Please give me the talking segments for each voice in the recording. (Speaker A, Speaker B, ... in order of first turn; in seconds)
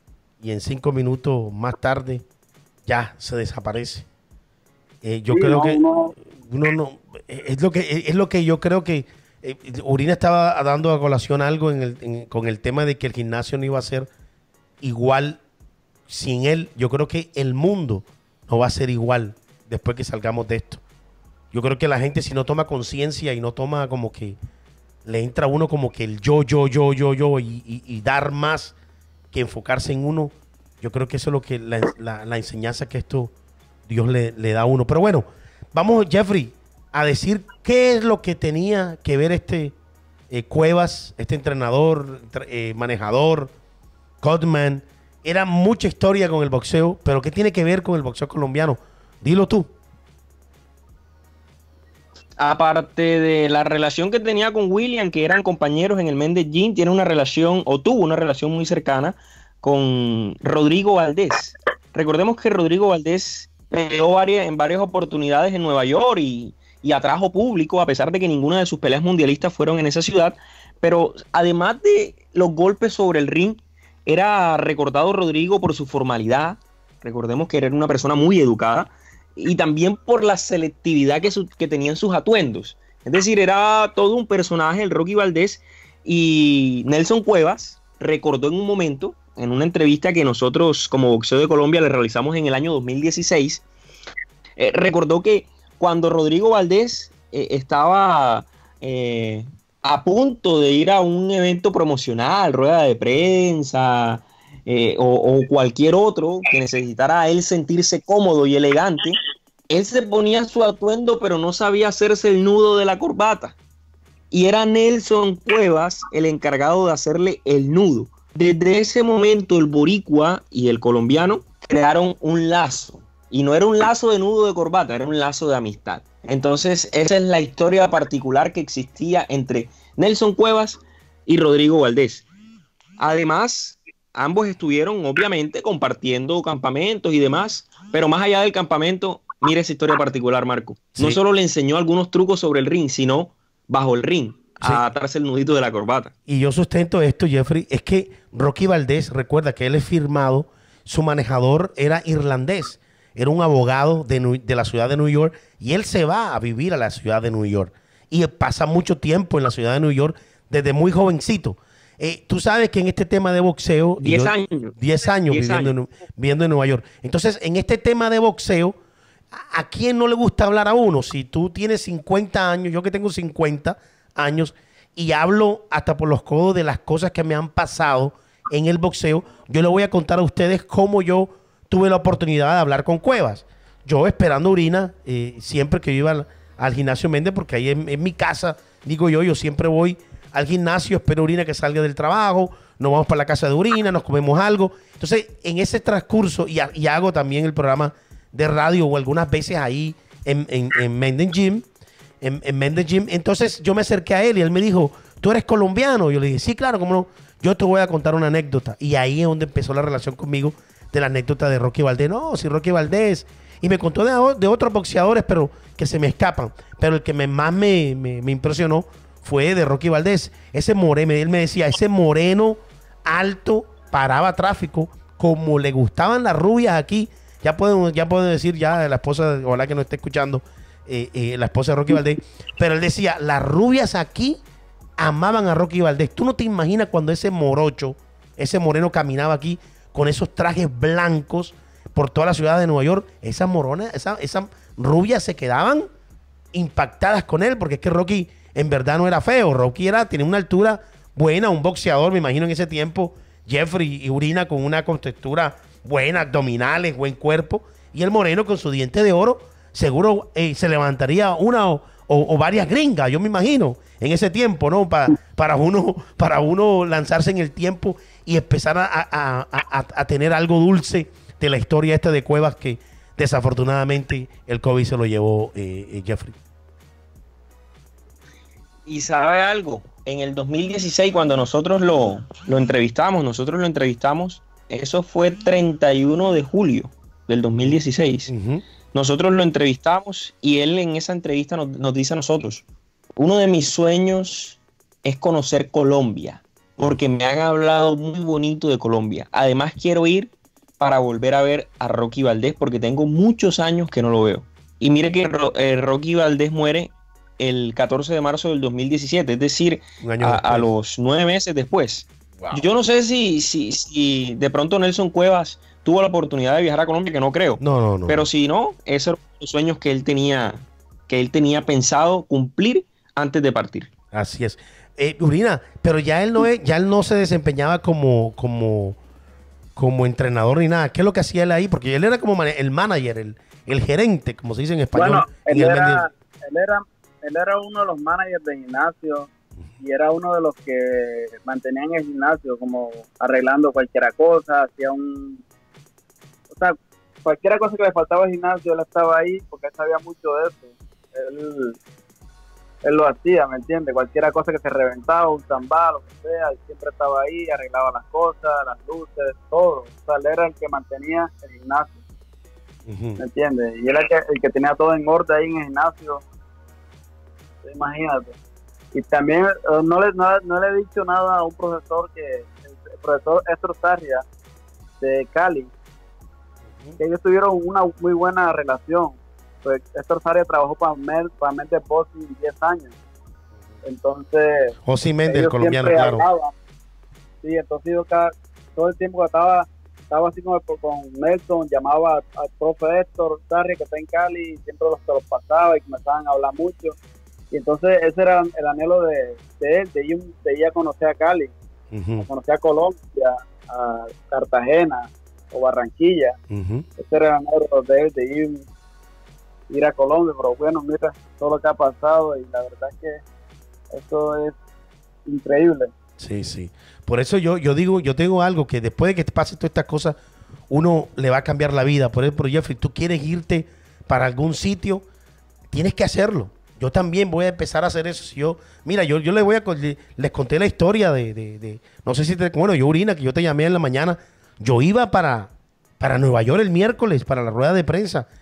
Speaker A: 0.4-2.2, 2.9-4.0, 5.0-5.8, 6.4-14.1, 14.8-15.4, 16.1-20.8, 21.5-24.4, 25.1-28.7, 29.3-33.3, 33.9-39.7, 40.3-43.5, 44.2-49.7, 146.3-168.8, 169.3-201.7, 202.2-234.4, 235.0-245.9, 246.5-276.4, 288.3-288.6, 310.0-310.7, 317.6-318.3, 324.1-329.0, 329.8-336.0, 362.9-363.2, 376.7-377.0, 384.8-386.2, 401.9-402.3, 406.5-406.9, 416.2-420.1, 420.7-425.0, 425.7-438.3
Speaker B: 5.3-6.1, 334.9-345.4, 346.5-351.8, 352.8-362.0, 363.2-366.2, 367.6-368.4, 368.9-374.2, 375.0-375.7, 377.0-382.9, 383.8-384.7, 385.3-386.5, 387.4-397.0, 397.5-401.5, 402.2-406.4, 407.0-408.6, 409.7-413.2, 413.9-414.6, 415.2-415.9
Speaker C: 52.4-93.6, 94.6-109.2, 109.7-113.6, 114.3-132.2, 133.0-146.1, 164.0-164.7, 165.3-165.7, 278.9-288.3, 288.9-292.6, 293.2-323.9